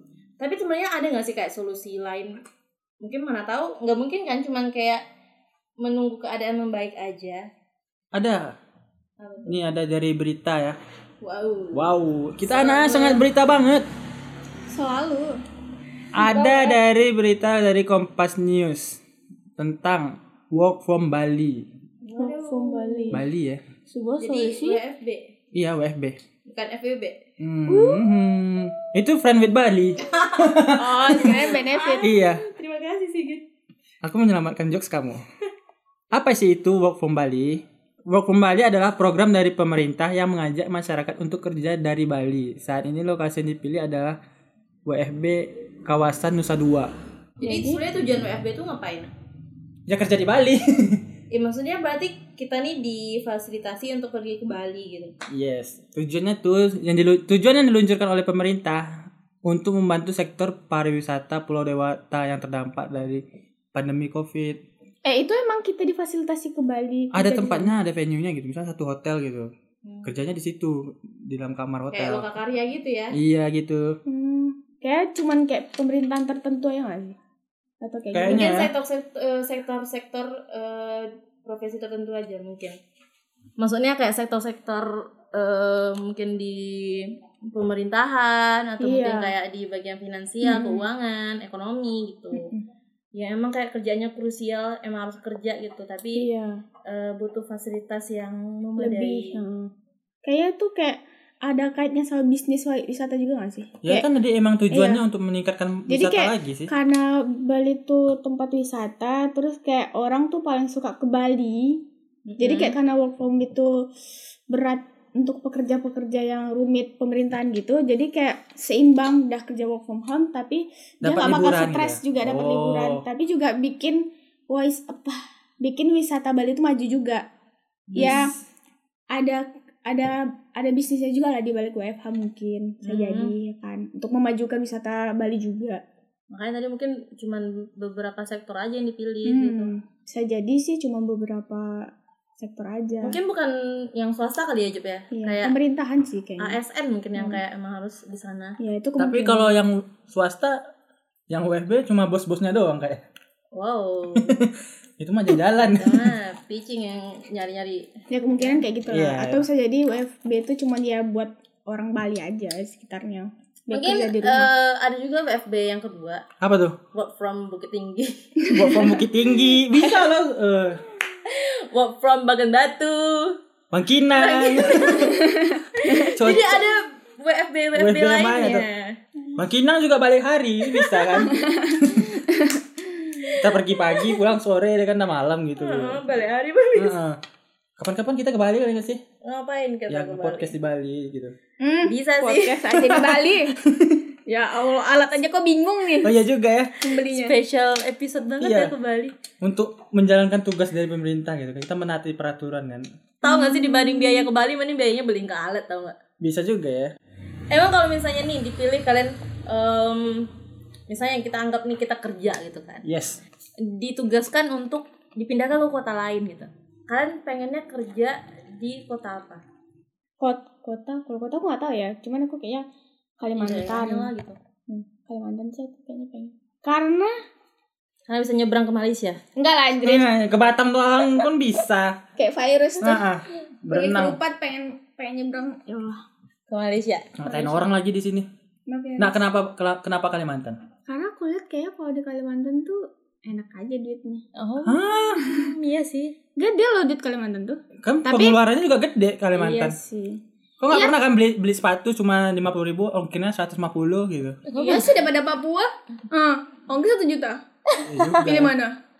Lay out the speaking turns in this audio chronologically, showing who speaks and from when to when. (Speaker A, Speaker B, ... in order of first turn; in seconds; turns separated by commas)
Speaker A: 0.4-2.4, Speaker A: 3.0-5.0, Speaker A: 5.8-7.4, Speaker B: 8.1-8.6, Speaker A: 9.2-9.7, Speaker B: 9.5-10.8, Speaker A: 11.2-11.9, Speaker B: 11.7-13.8, Speaker A: 12.4-13.2, Speaker C: 14.7-15.4, Speaker B: 16.1-19.0, Speaker A: 16.2-16.8, Speaker B: 19.6-21.7, Speaker A: 22.0-23.2, Speaker C: 22.2-23.2, Speaker B: 23.1-23.6, Speaker C: 23.9-24.8, Speaker A: 24.2-25.3, Speaker B: 25.5-26.2, Speaker A: 26.5-27.2, Speaker B: 27.4-31.4, Speaker C: 27.7-28.0, Speaker A: 30.0-33.4, Speaker C: 30.8-32.1, Speaker B: 32.0-32.4, Speaker B: 34.0-35.2, Speaker B: 36.1-44.1, Speaker B: 44.9-46.9, Speaker C: 47.4-47.8, Speaker A: 47.4-49.1, Speaker B: 49.9-51.0, Speaker A: 51.3-55.1, Speaker B: 55.3-64.6, Speaker C: 65.0-67.7, Speaker B: 67.1-69.5, Speaker A: 69.8-70.1, Speaker B: 70.0-72.3, Speaker A: 71.9-73.2, Speaker B: 73.1-74.0, Speaker C: 74.1-77.2, Speaker C: 77.8-78.5, Speaker B: 78.1-78.7, Speaker A: 78.3-82.8, Speaker A: 83.6-92.5, Speaker C: 88.8-89.3, Speaker C: 90.4-90.8, Speaker C: 92.3-92.6, Speaker A: 93.1-96.3, Speaker C: 96.2-96.6, Speaker A: 96.9-99.4, Speaker C: 98.8-99.7, Speaker C: 100.2-104.0, Speaker B: 103.8-106.7, Speaker C: 104.7-105.0, Speaker C: 105.9-111.8, Speaker A: 112.3-112.8, Speaker C: 112.4-113.8, Speaker C: 114.5-127.2, Speaker B: 121.0-123.0, Speaker B: 127.9-128.3, Speaker C: 128.0-128.3, Speaker C: 129.1-135.8, Speaker A: 132.8-133.4, Speaker A: 136.3-139.7, Speaker C: 139.2-143.2, Speaker A: 143.0-145.6, Speaker C: 145.1-146.6, Speaker A: 146.4-148.6, Speaker C: 147.2-147.4, Speaker C: 148.6-149.5, Speaker B: 149.0-150.6, Speaker B: 151.3-153.0, Speaker A: 153.5-154.4, Speaker B: 154.1-156.1, Speaker A: 155.6-158.6, Speaker C: 158.1-164.5, Speaker B: 158.9-159.5, Speaker A: 163.7-166.2, Speaker B: 166.4-166.8, Speaker A: 166.9-168.6, Speaker C: 168.4-169.0, Speaker B: 168.5-170.8, Speaker C: 169.7-170.0, Speaker A: 171.3-173.4, Speaker B: 173.7-175.2, Speaker A: 174.2-179.0, Speaker C: 175.0-176.3, Speaker B: 176.1-176.6, Speaker B: 177.8-178.6, Speaker B: 179.4-182.1, Speaker A: 180.8-181.2, Speaker C: 181.2-183.3, Speaker A: 183.2-184.1, Speaker B: 183.4-186.0, Speaker A: 185.6-187.0, Speaker B: 186.8-187.2, Speaker B: 187.8-189.0, Speaker A: 189.2-190.5, Speaker B: 189.9-191.3, Speaker C: 191.6-193.6, Speaker A: 191.9-192.7, Speaker B: 192.7-194.1, Speaker C: 194.3-196.1, Speaker B: 196.0-196.7, Speaker C: 196.8-197.4, Speaker A: 197.0-199.1, Speaker B: 198.4-198.7, Speaker B: 199.4-202.9, Speaker A: 203.2-206.0, Speaker C: 203.2-204.3, Speaker B: 206.2-206.9, Speaker A: 207.5-210.3, Speaker A: 210.9-212.8, Speaker B: 212.8-213.2, Speaker A: 213.6-219.4, Speaker C: 220.2-222.7, Speaker C: 223.2-224.1, Speaker A: 223.4-224.4, Speaker C: 224.7-227.1, Speaker A: 228.1-229.2, Speaker C: 229.4-230.1, Speaker B: 229.8-232.0, Speaker C: 232.2-233.0, Speaker B: 232.8-234.2, Speaker C: 233.7-236.0, Speaker A: 236.5-237.6, Speaker B: 237.2-238.3, Speaker C: 238.7-239.2, Speaker B: 239.0-240.6, Speaker C: 240.9-244.2, Speaker A: 244.3-246.1, Speaker B: 244.6-245.2, Speaker C: 246.4-248.4, Speaker B: 247.8-249.8, Speaker C: 249.4-251.0, Speaker B: 250.6-254.4, Speaker A: 254.5-254.9, Speaker C: 254.6-257.4, Speaker B: 257.9-258.5, Speaker C: 258.1-258.8